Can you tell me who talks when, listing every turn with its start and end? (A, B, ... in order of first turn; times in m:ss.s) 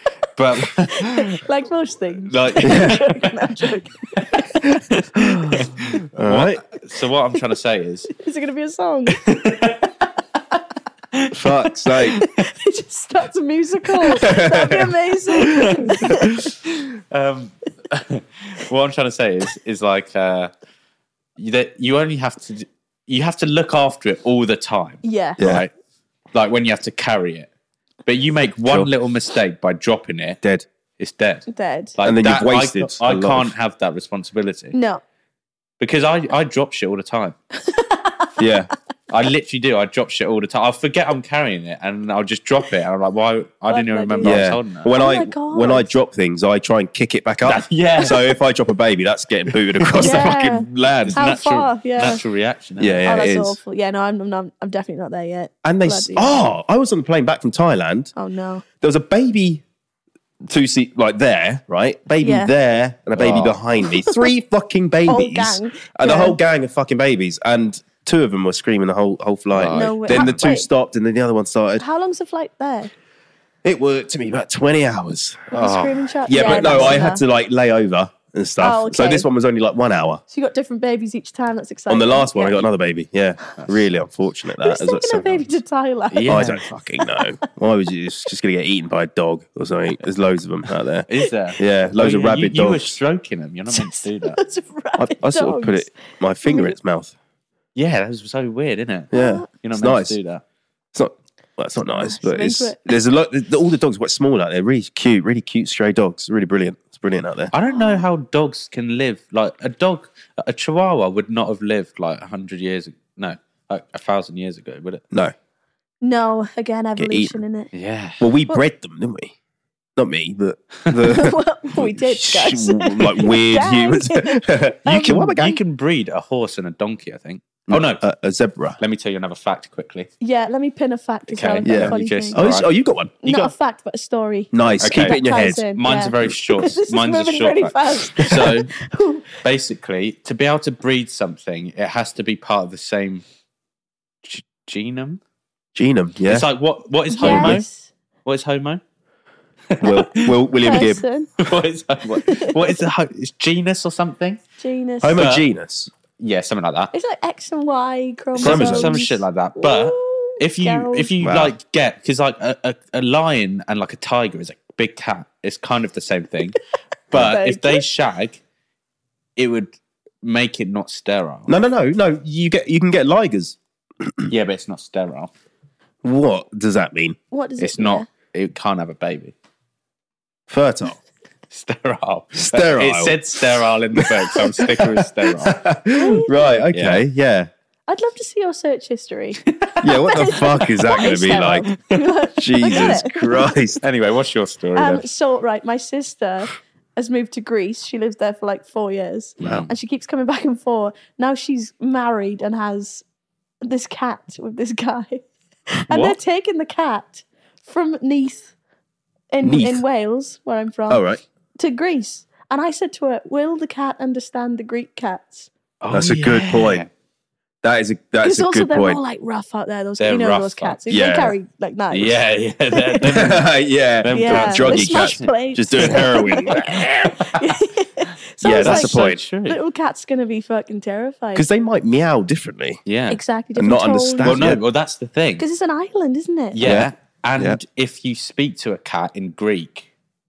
0:00.4-0:01.4 A
0:00.9-0:04.7 B
0:02.3-0:03.4 A
0:02.6-0:03.0 C
0:04.2-0:08.1 A
0:05.2-0:06.6 C
0:05.5-0:06.0 B
0:08.1-0:09.2 B
0:09.1-0:09.9 A
0:11.1-0:12.3 A
0:11.3-0:12.2 C
0:12.1-0:16.4 B
0:14.2-0:14.9 C
0:15.4-0:20.5 A
0:15.6-0:16.2 C
0:21.4-0:25.7 A
0:25.0-0:25.4 B
0:25.4-0:25.7 C
0:26.3-0:27.5 A
0:28.1-0:30.4 A
0:31.0-0:31.5 A
0:31.5-0:32.0 B
0:32.0-0:34.8 A
0:32.0-0:33.5 C
0:34.7-0:35.0 B
0:35.8-0:37.4 A
0:37.6-0:38.3 B
0:38.4-0:38.7 C
0:39.1-0:44.9 A
0:43.7-0:45.9 B
0:44.2-0:51.2 C
0:47.4-0:48.4 A
0:49.5-0:50.4 A
0:50.0-0:52.2 B
0:51.0-0:53.0 A
0:52.8-0:53.6 C
0:53.0-0:56.5 B
0:55.6-0:58.1 C
0:58.2-0:58.6 B
0:58.8-0:59.6 C
1:00.5-1:11.8 C
1:02.2-1:02.5 B
1:03.2-1:03.6 A
1:04.0-1:04.3 B
1:05.1-1:06.4 B
1:09.5-1:10.3 A
1:09.7-1:10.7 B
1:11.8-1:12.9 B
1:13.6-1:15.5 C
1:15.5-1:17.2 B
1:15.5-1:17.0 A
1:16.3-1:20.2 C
1:18.6-1:19.3 B
1:20.3-1:22.7 B
1:21.9-1:25.5 C
1:23.6-1:23.8 A
1:24.6-1:27.3 B
1:26.1-1:26.7 A
1:26.3-1:33.0 C
1:31.1-1:34.4 A
1:33.7-1:36.8 B
1:35.0-1:37.1 C
1:37.8-1:40.4 A
1:39.1-1:40.2 C
1:39.1-1:39.5 B
1:40.9-1:47.5 C
1:41.8-1:42.9 B
1:47.5-1:55.0 A
1:47.7-1:48.0 B
1:56.0-1:57.7 B
1:57.0-1:57.4 C
1:57.7-1:58.3 A
1:58.2-1:59.3 C
2:00.0-2:05.6 C
2:01.1-2:05.2 B
2:04.9-2:08.0 A
2:07.7-2:08.8 C
2:08.8-2:10.1 A
2:10.2-2:12.4 B
2:11.3-2:12.7 A
2:11.6-2:13.5 C
2:13.2-2:19.4 B
2:14.5-2:15.6 C
2:14.8-2:15.2 A
2:15.8-2:18.7 A
2:18.2-2:18.5 C
2:19.4-2:23.2 A
2:24.2-2:25.2 A
2:25.8-2:26.5 C
2:26.2-2:27.6 A
2:27.1-2:27.9 B
2:27.2-2:27.6 C
2:28.2-2:28.8 A
2:29.7-2:30.4 A
2:29.8-2:31.0 C
2:30.6-2:31.3 B
2:31.4-2:34.4 A
2:32.2-2:32.8 B
2:34.6-2:35.2 B
2:35.0-2:35.9 C
2:35.1-2:35.5 A
2:36.2-2:36.9 A
2:36.9-2:41.1 B
2:38.4-2:39.0 C
2:38.4-2:46.6 A
2:41.2-2:41.5 C
2:47.1-2:48.4 A
2:47.2-2:47.8 B
2:49.4-2:51.5 A
2:51.5-2:54.3 C
2:54.3-2:55.3 A
2:56.0-2:57.2 C
2:57.3-2:58.1 B
2:57.6-2:59.3 A
3:00.5-3:01.0 C
3:01.5-3:05.6 A
3:02.3-3:07.5 C
3:05.9-3:06.6 B
3:06.7-3:07.0 A
3:07.9-3:13.6 B
3:09.5-3:09.8 A
3:09.8-3:11.7 C
3:11.7-3:12.0 A
3:12.4-3:13.8 C
3:13.8-3:15.1 A
3:14.8-3:23.0 B
3:19.4-3:19.7 A
3:19.4-3:19.7 C
3:23.6-3:25.3 B
3:25.9-3:28.5 B
3:25.9-3:26.2 A
3:29.3-3:31.0 B
3:29.4-3:29.8 C
3:30.9-3:31.2 C
3:31.6-3:35.5 B
3:35.8-3:36.9 A
3:35.9-3:36.8 C
3:37.6-3:39.0 C
3:38.2-3:43.3 B
3:40.0-3:40.8 A
3:40.9-3:41.4 C
3:41.9-3:43.5 A
3:43.0-3:47.2 C
3:44.0-3:46.1 A
3:44.1-3:51.5 B
3:48.4-3:49.2 C
3:48.4-3:49.6 A
3:51.4-3:52.8 C
3:52.9-3:53.2 A
3:53.1-3:54.6 B
3:53.6-3:54.6 C
3:54.2-3:55.4 A
3:55.4-3:56.6 B
3:56.5-3:59.9 A
3:56.6-3:57.6 C